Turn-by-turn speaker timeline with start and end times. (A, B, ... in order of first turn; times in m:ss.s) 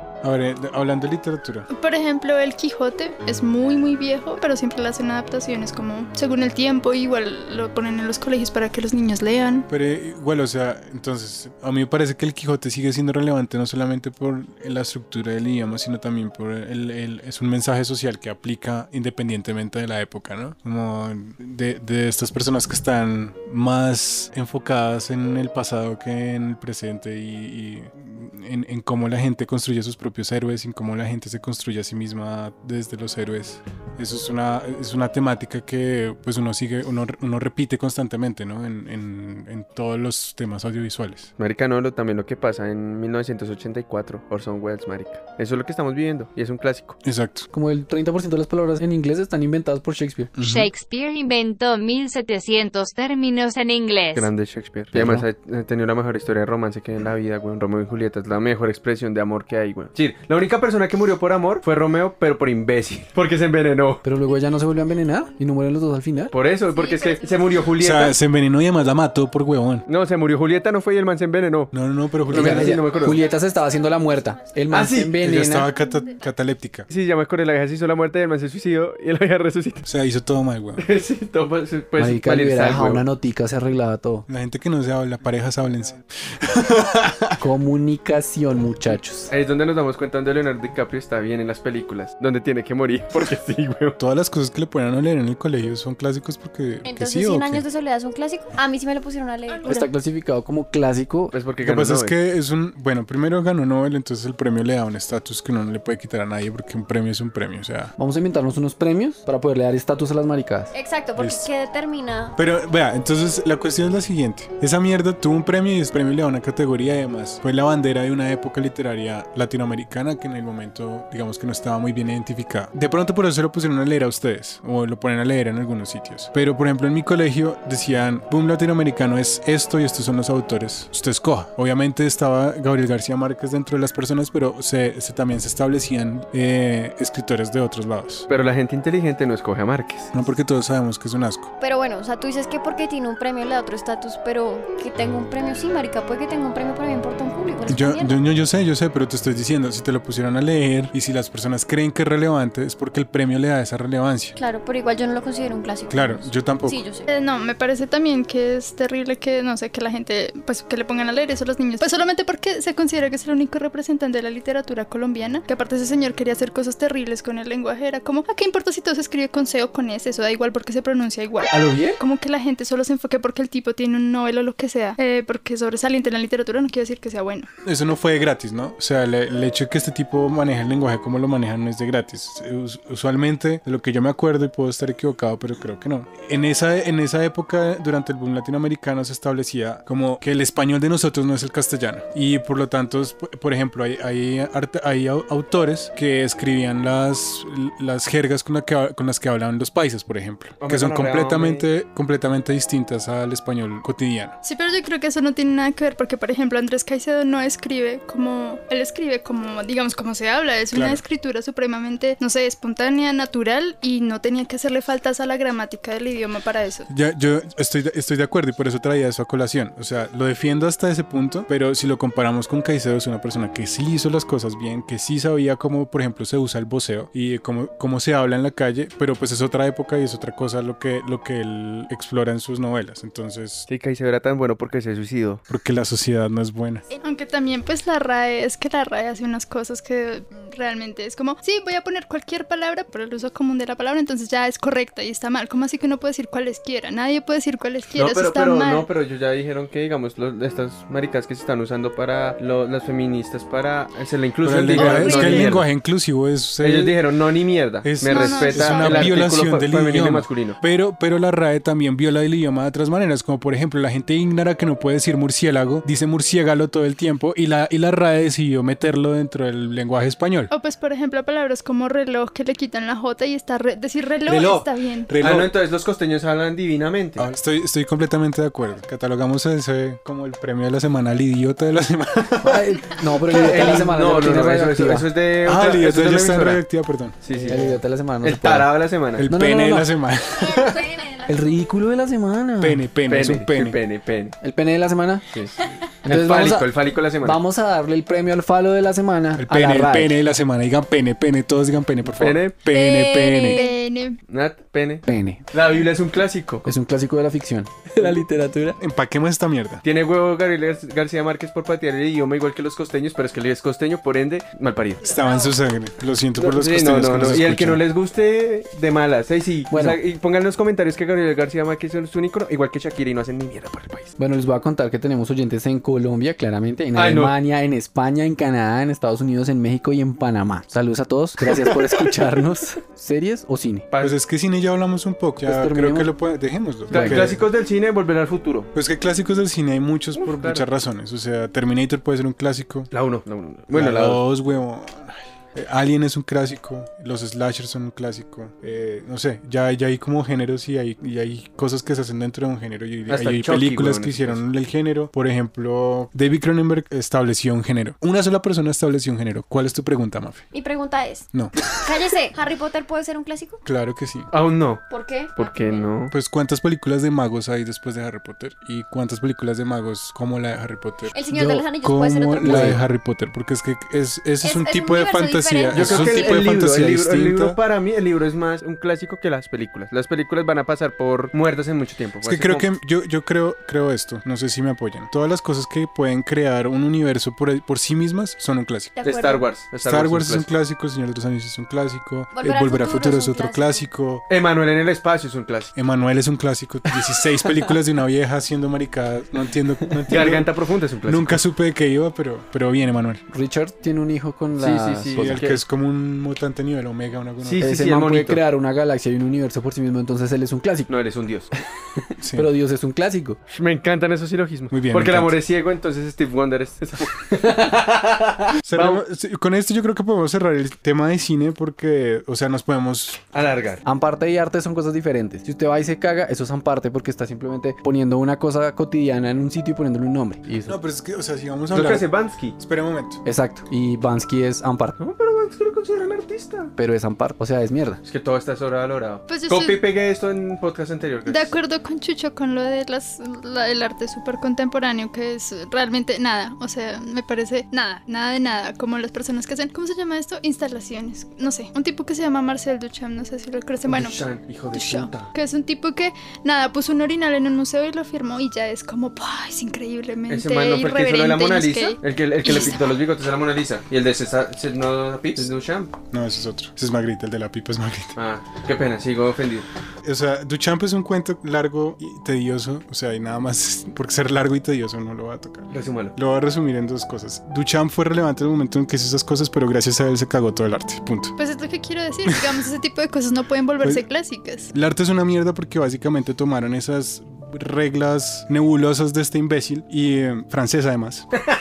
0:00.2-0:01.7 A
0:01.7-0:09.7 B
0:09.7-0:41.3 A
0:41.4-0:47.0 C
0:47.0-0:47.5 A
0:47.5-0:50.3 D
0:50.4-0:50.7 A
0:50.4-0:54.3 E
0:54.1-1:04.0 C
0:54.9-0:55.3 D
1:04.0-1:06.3 D
1:06.3-1:08.2 C
1:07.8-1:09.9 A
1:09.9-1:11.7 C
1:11.7-1:12.9 A
1:12.3-1:15.7 D
1:12.3-1:13.2 C
1:14.7-1:15.2 C
1:15.2-1:16.9 A
1:16.9-1:19.9 C
1:19.8-1:20.8 A
1:20.8-1:23.0 C
1:22.0-1:24.3 D
1:24.3-1:27.4 A
1:27.4-1:29.3 D
1:29.3-1:34.0 C
1:34.0-1:37.6 A
1:36.8-1:39.9 F
1:39.6-1:41.4 D
1:41.3-1:42.2 C
1:41.6-1:47.9 A
1:48.0-1:50.7 D
1:50.7-1:52.4 F
1:51.2-1:51.5 A
1:52.4-2:18.3 A
2:18.3-2:20.1 C
2:20.1-2:21.5 A
2:21.6-2:28.2 F
2:27.7-2:34.4 A
2:34.4-2:37.1 F
2:35.9-2:36.9 A
2:37.1-2:57.5 B
2:51.5-2:52.0 C
2:57.6-3:24.4 A
3:20.6-3:21.7 C
3:24.4-3:36.9 B
3:30.7-3:31.0 A
3:36.9-3:53.7 A
3:53.7-3:55.4 C
3:55.5-3:56.9 A
3:56.9-4:08.9 B
4:08.0-4:15.7 C
4:14.4-4:17.0 A
4:14.8-4:15.6 B
4:16.6-4:20.6 C
4:17.8-4:30.5 A
4:18.0-4:19.2 B
4:30.5-4:35.1 B
4:34.3-4:35.6 A
4:35.2-4:37.3 C
4:37.2-4:42.8 A
4:42.4-4:45.1 D
4:43.3-4:46.6 C
4:43.6-4:43.9 A
4:45.4-4:47.7 A
4:47.2-4:49.3 C
4:47.4-4:48.7 D
4:49.2-4:51.0 A
4:49.3-4:50.0 D
4:50.6-4:51.3 F
4:51.2-4:52.9 D
4:52.6-4:53.8 A
4:53.1-4:54.4 C
4:54.4-4:55.3 D
4:56.0-5:00.2 D
4:56.1-4:57.4 C
4:59.4-5:03.7 A
5:02.1-5:02.6 C
5:02.7-5:03.7 F
5:03.5-5:04.2 B
5:04.3-5:06.7 C
5:05.1-5:05.4 D
5:06.6-5:08.8 D
5:08.8-5:09.8 A
5:09.8-5:15.1 C
5:15.0-5:17.8 A
5:16.4-5:24.1 C
5:19.7-5:20.0 D
5:24.2-5:33.9 D
5:27.0-5:27.3 C
5:31.5-5:31.9 C
5:33.9-5:34.2 C
5:34.0-5:37.4 A
5:35.4-5:36.1 D
5:36.9-5:38.7 C
5:36.9-5:37.3 D
5:38.7-5:42.9 A
5:40.2-5:40.7 C
5:42.9-5:44.2 C
5:43.7-6:00.4 A
5:53.1-5:54.4 C
6:00.5-6:03.6 F
6:01.3-6:01.8 A
6:03.6-6:04.3 A
6:04.3-6:06.1 C
6:04.9-6:05.9 F
6:06.1-6:17.6 A
6:11.1-6:12.8 F
6:12.4-6:12.8 D
6:14.4-6:16.6 F
6:15.7-6:22.7 C
6:22.2-6:29.0 A
6:29.0-6:29.4 B
6:29.0-6:30.5 C
6:29.8-6:34.2 A
6:32.3-6:33.9 F
6:34.3-6:35.7 C
6:35.8-6:40.5 A
6:40.1-6:41.4 C
6:41.1-6:43.2 A
6:43.3-6:45.5 D
6:44.6-6:45.6 C
6:45.2-6:47.7 A
6:47.4-6:48.4 C
6:47.6-6:50.9 D
6:50.9-6:51.5 C
6:52.0-6:53.4 D
6:52.2-6:52.5 A
6:53.5-6:59.0 C
6:54.7-6:55.4 A
6:58.7-7:03.2 A
7:03.3-7:03.8 C
7:03.8-7:10.8 D
7:10.7-7:13.2 A
7:11.7-7:12.6 C
7:13.2-7:15.0 D
7:15.0-7:16.7 C
7:16.8-7:18.0 D
7:18.0-7:21.5 C
7:19.3-7:19.8 B
7:21.3-7:34.2 B
7:33.9-7:35.3 C
7:34.7-7:42.9 B
7:40.3-7:46.0 C
7:46.1-7:48.2 A
7:48.2-7:49.7 C
7:50.0-8:01.4 A
7:55.7-7:56.2 C
8:01.4-8:04.7 B
8:04.7-8:11.3 A